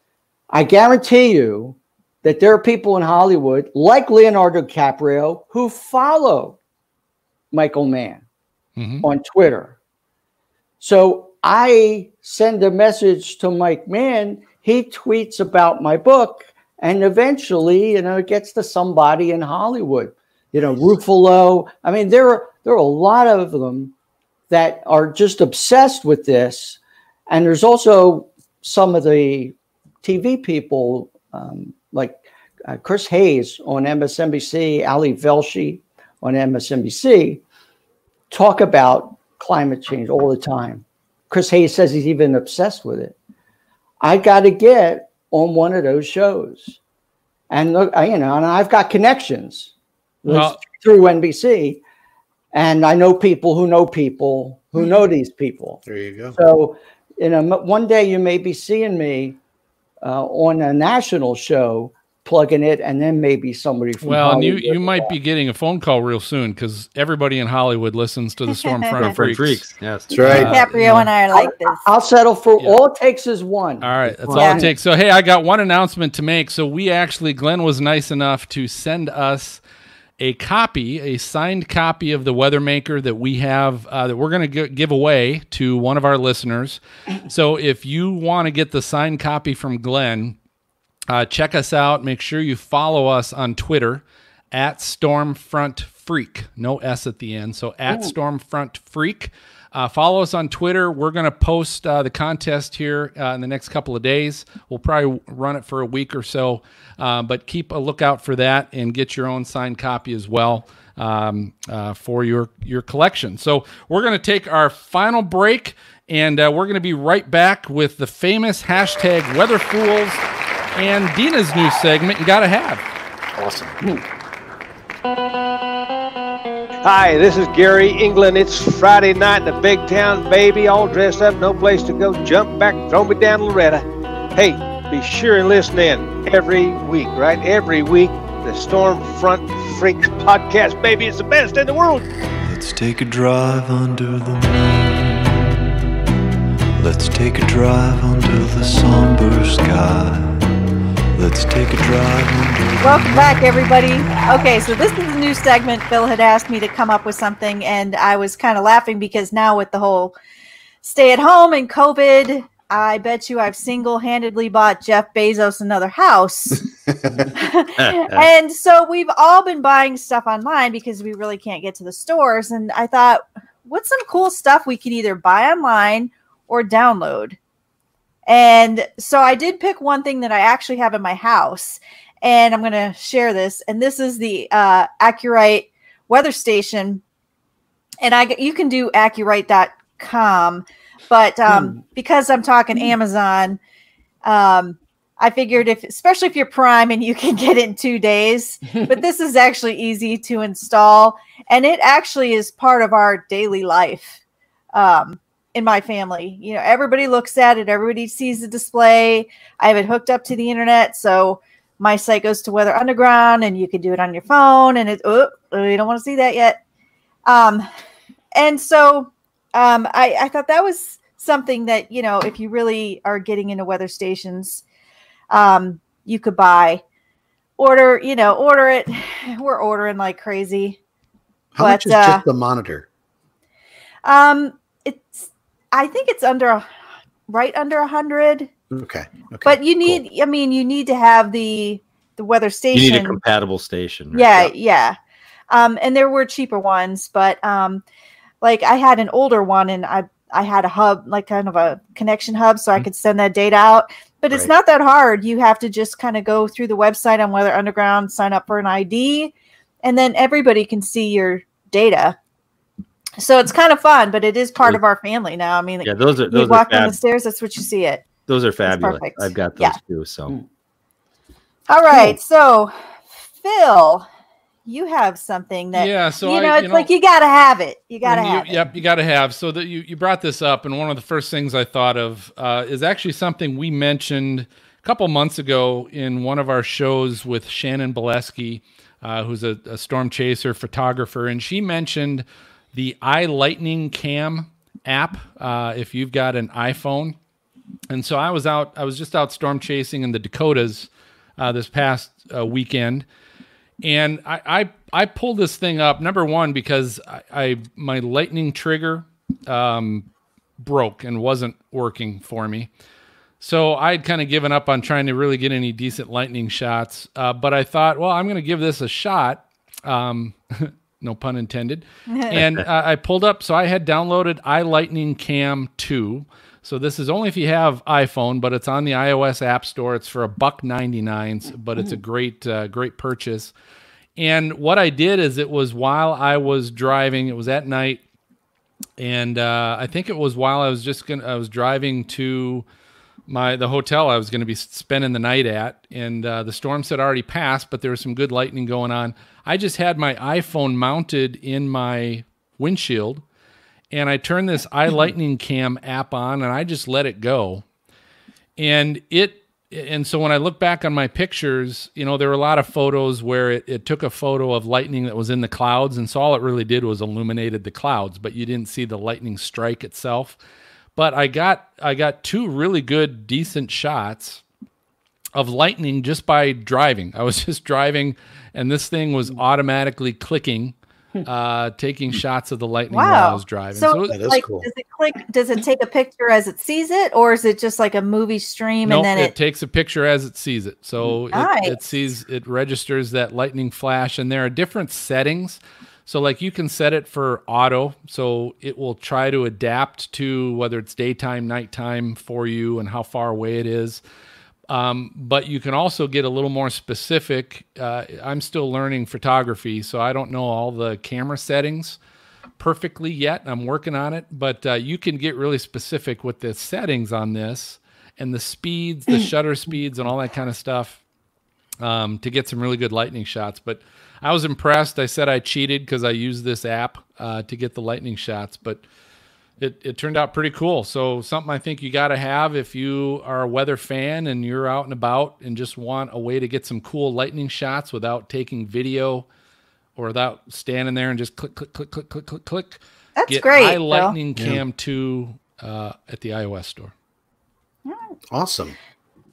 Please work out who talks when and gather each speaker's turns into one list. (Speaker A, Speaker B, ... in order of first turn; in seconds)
Speaker A: 0.5-6.6, 7.5-8.2, 9.0-9.8, 10.8-23.9, 24.5-26.8, 27.3-37.4, 38.3-43.1, 44.0-46.8, 47.5-49.7, 50.2-51.8, 52.5-55.8, 56.4-59.4, 60.0-65.1, 71.3-74.7, 191.5-191.8, 198.7-199.0
Speaker B: 8.8-9.1, 50.2-50.6, 64.0-69.7, 70.2-71.1, 73.8-79.6, 80.2-90.4, 91.1-120.2, 120.7-122.8, 275.7-276.9, 278.0-297.1, 297.9-303.1, 303.8-310.1, 310.6-312.7, 313.4-333.5, 334.2-338.0, 339.0-342.6, 343.3-353.2, 353.9-357.6, 358.6-370.4, 370.9-374.4, 375.3-384.2, 388.8-404.0, 404.7-412.0, 412.6-421.0, 421.8-428.8, 429.6-439.2, 439.9-446.9
Speaker C: 55.9-56.4, 70.1-70.6, 123.3-123.8, 231.5-232.8, 238.7-240.0, 384.1-384.7, 444.4-444.6, 448.3-448.8
Speaker D: 68.5-68.9, 70.3-71.8, 74.3-74.6, 152.8-160.2, 160.8-166.6, 167.3-177.4, 178.2-187.0, 188.0-193.6, 194.2-204.2, 204.7-216.6, 217.2-217.7, 218.3-224.6, 225.3-226.8, 227.6-230.8, 231.6-232.2, 234.0-236.7, 237.3-238.5, 239.4-243.2, 244.1-245.0, 245.5-247.8, 248.4-262.2, 263.2-268.1, 268.6-269.8, 271.7-272.7, 273.4-274.1, 274.6-278.7, 382.9-389.3, 391.3-391.8, 443.2-444.1, 447.9-448.1
Speaker E: 69.0-70.5, 74.1-74.4, 167.8-168.3, 242.7-244.5, 265.8-267.0, 268.3-270.3, 322.3-322.6
Speaker F: 126.8-142.0
Speaker G: 142.4-145.6, 146.8-150.5, 151.1-153.3